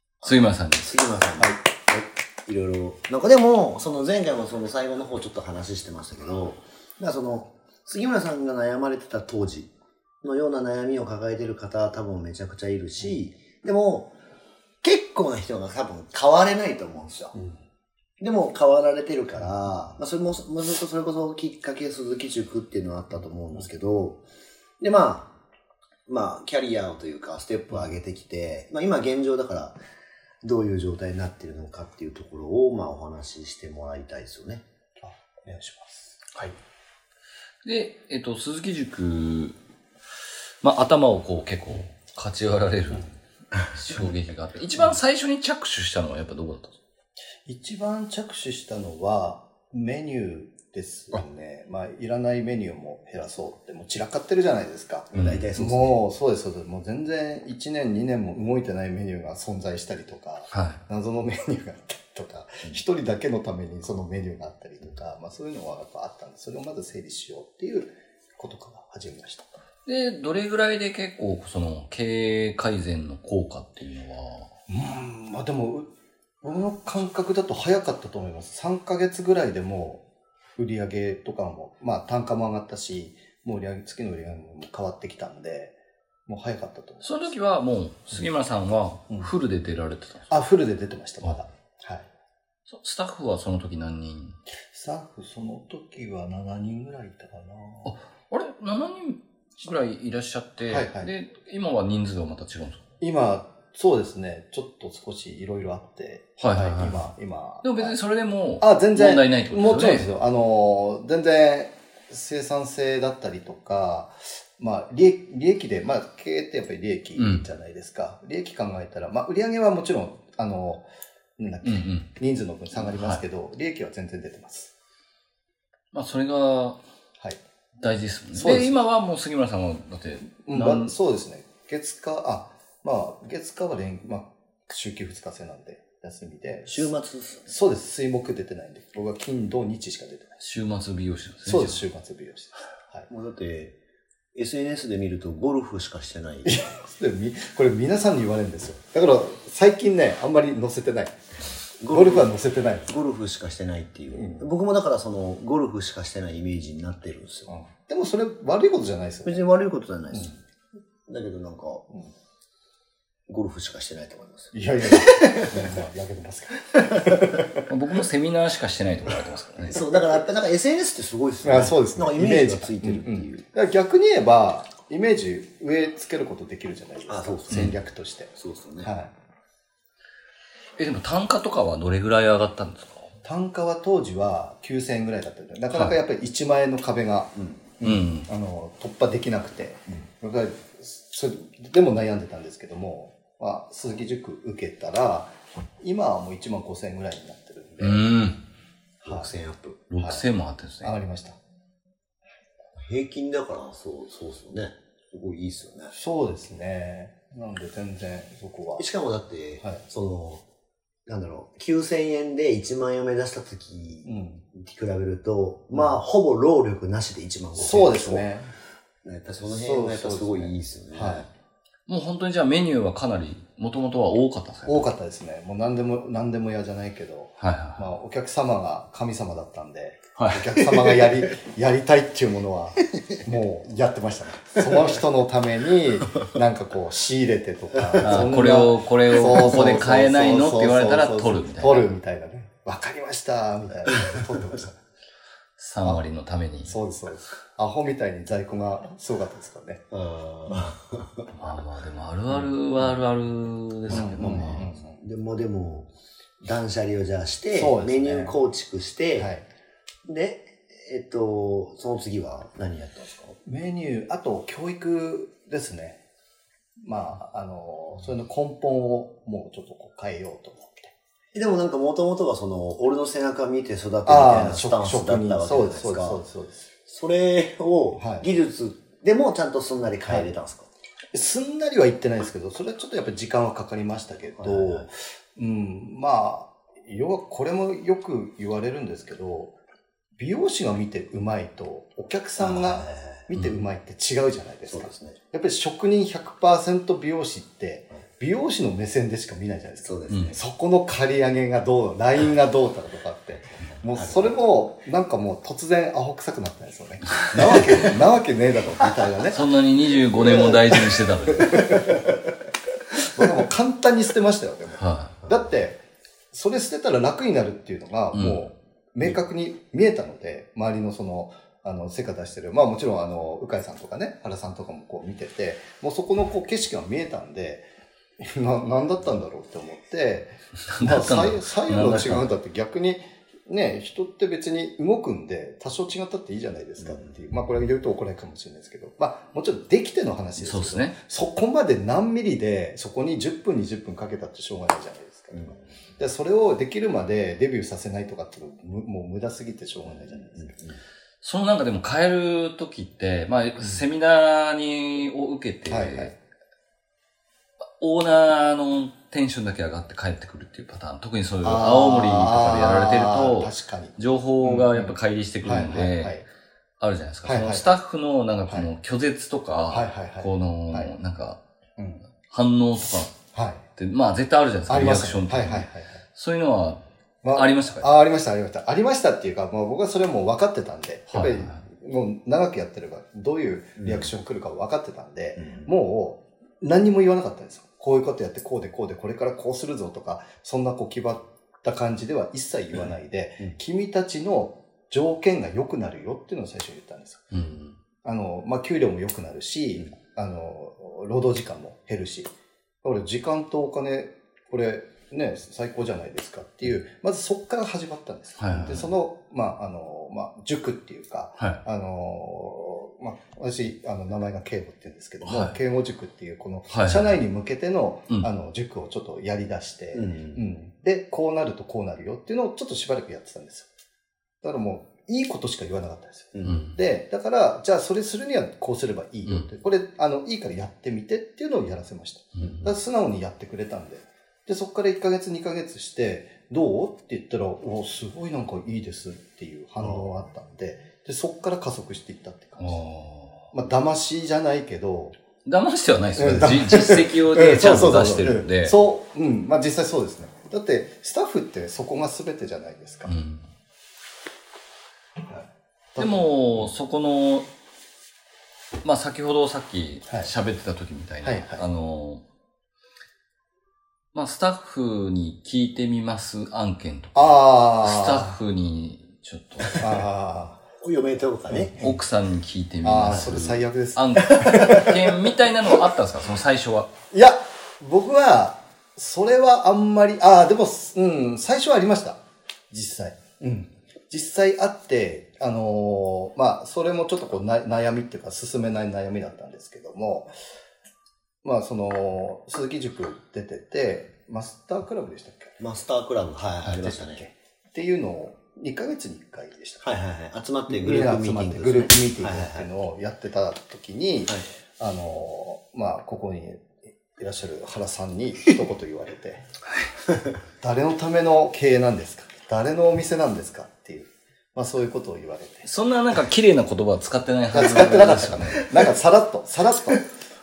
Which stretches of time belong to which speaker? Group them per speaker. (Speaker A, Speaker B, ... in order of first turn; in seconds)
Speaker A: 0.2-14.1, 14.8-17.4, 18.2-24.2, 24.8-25.3, 26.1-29.8, 30.4-34.6, 55.1-56.0, 136.7-137.5, 143.1-143.8, 144.3-146.6, 151.8-152.3, 152.9-157.5, 159.2-160.4, 161.1-161.9, 163.3-164.5, 169.7-173.4, 177.1-177.8, 178.4-178.9, 187.4-187.6, 199.0-199.8, 202.8-205.9, 208.8-210.4, 211.1-218.3, 219.0-221.3, 249.9-251.3, 253.9-259.3, 260.1-263.4, 271.3-276.2, 276.9-280.7, 284.4-284.9, 292.4-293.2, 294.7-295.2, 299.8-300.4, 303.9-304.4, 345.4-345.6, 350.2-350.8, 383.8-384.1, 385.4-385.7, 419.9-420.4, 426.3-426.6, 432.4-432.6, 470.8-471.7, 474.4-474.8, 495.6-497.2, 499.8-502.7
Speaker B: 0.2-0.9, 37.6-39.6, 40.6-43.1, 43.7-46.8, 55.2-55.4, 60.5-60.8, 69.9-74.5, 87.0-90.3, 92.7-94.4, 97.8-102.8, 106.4-107.0, 107.6-110.1, 117.2-117.5, 121.6-122.1, 122.7-123.2, 125.9-126.8, 127.8-130.9, 140.4-141.8, 167.7-169.8, 177.5-177.8, 180.8-183.1, 187.8-188.3, 197.8-198.4, 199.9-200.9, 221.9-224.9, 227.4-227.8, 230.2-230.5, 238.0-241.9, 245.6-246.7, 251.4-254.7, 300.1-300.4, 309.3-311.9, 314.8-315.2, 318.1-318.5, 330.7-332.3, 340.4-341.0, 351.2-356.1, 357.8-366.2, 366.8-371.4, 372.2-373.1, 373.8-376.8, 377.3-378.0, 381.1-381.6, 397.3-397.8, 408.4-408.9, 415.2-415.6, 416.7-417.1, 426.4-426.8, 432.4-432.7, 442.6-443.5, 445.4-448.8, 453.1-453.5, 456.0-457.5, 458.8-462.2, 464.1-470.1, 471.7-476.9, 515.6-518.8
Speaker C: 35.0-36.5, 47.5-69.6, 74.7-75.9, 76.4-80.0, 80.6-87.3, 90.3-92.1, 94.7-97.9, 100.7-101.1, 103.0-108.0, 108.6-120.8, 121.4-124.7, 128.3-128.8, 130.4-136.9, 137.5-140.4, 141.4-143.1, 146.4-151.2, 151.9-152.9, 154.1-154.5, 157.5-159.5, 164.5-167.7, 171.4-179.1, 183.2-198.1, 199.1-199.3, 200.0-200.3, 200.8-201.4, 205.9-208.8, 214.1-214.4, 215.7-216.0, 217.6-218.5, 219.4-221.3, 224.7-244.8, 246.7-249.8, 253.9-255.0, 257.5-258.4, 259.2-259.5, 263.4-266.0, 266.8-270.9, 274.1-276.7, 278.0-278.3, 281.1-289.6, 290.2-309.4, 310.2-310.8, 311.3-312.0, 313.1-327.6, 328.2-350.5, 355.7-356.1, 361.4-366.2, 367.2-367.7, 369.7-370.9, 371.8-372.0, 373.3-373.6, 374.7-376.0, 377.2-397.3, 398.0-402.3, 402.8-423.7, 424.4-442.8, 443.5-445.2, 446.2-453.1, 455.3-456.7, 461.2-461.6, 467.1-468.4, 469.8-470.6, 471.5-472.0, 472.8-475.0, 477.1-490.3, 491.4-495.6, 496.6-499.9, 500.7-509.5, 510.6-515.7, 517.5-520.1